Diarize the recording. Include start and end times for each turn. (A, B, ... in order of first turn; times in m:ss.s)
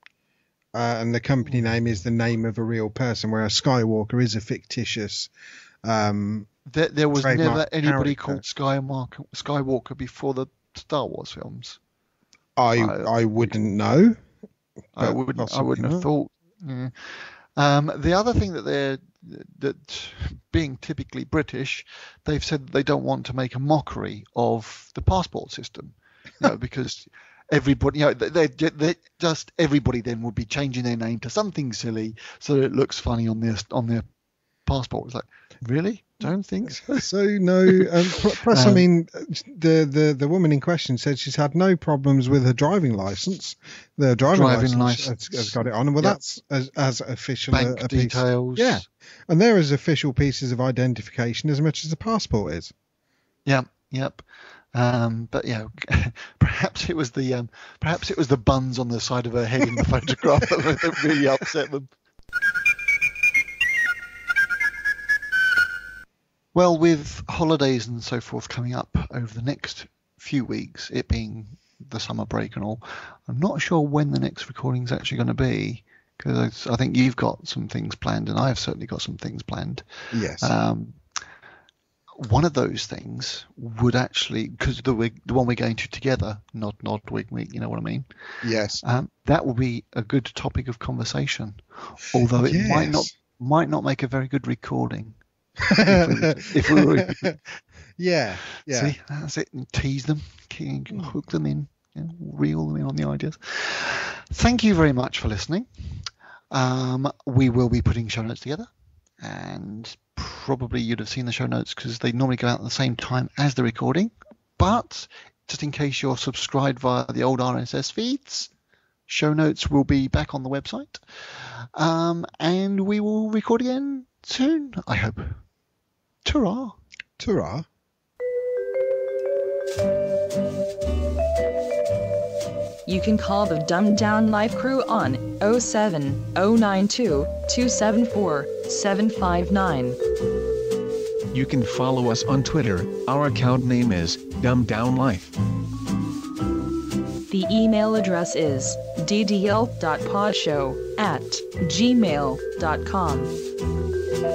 0:00.8-0:05.3 A
0:05.8-0:06.5 A
0:06.7-0:11.8 B
0:07.2-0:08.4 A
0:12.6-0:14.2 A
0:12.8-0:13.1 B
0:15.0-0:34.0 B
0:15.0-0:16.1 A
0:34.7-0:37.1 B
0:36.8-0:52.7 A
0:37.7-0:37.9 B
0:38.5-0:38.8 B
0:44.3-0:46.2 B
0:47.5-0:48.8 B
0:53.4-0:54.2 B
0:54.7-1:01.9 B
1:06.5-1:19.8 B
1:20.1-1:20.5 A
1:20.4-1:21.0 B
1:22.2-1:28.1 B
1:28.4-1:28.8 A
1:28.8-1:35.2 B
1:32.4-1:33.1 A
1:35.7-1:37.4 A
1:35.8-1:37.3 B
1:38.0-1:39.0 A
1:38.7-1:45.7 B
1:46.5-1:48.7 B
1:49.2-1:58.5 B
1:59.1-2:05.4 B
2:06.2-2:06.8 B
2:07.2-2:07.7 A
2:12.9-2:20.0 C
2:21.3-2:25.3 D
2:27.3-2:33.3 C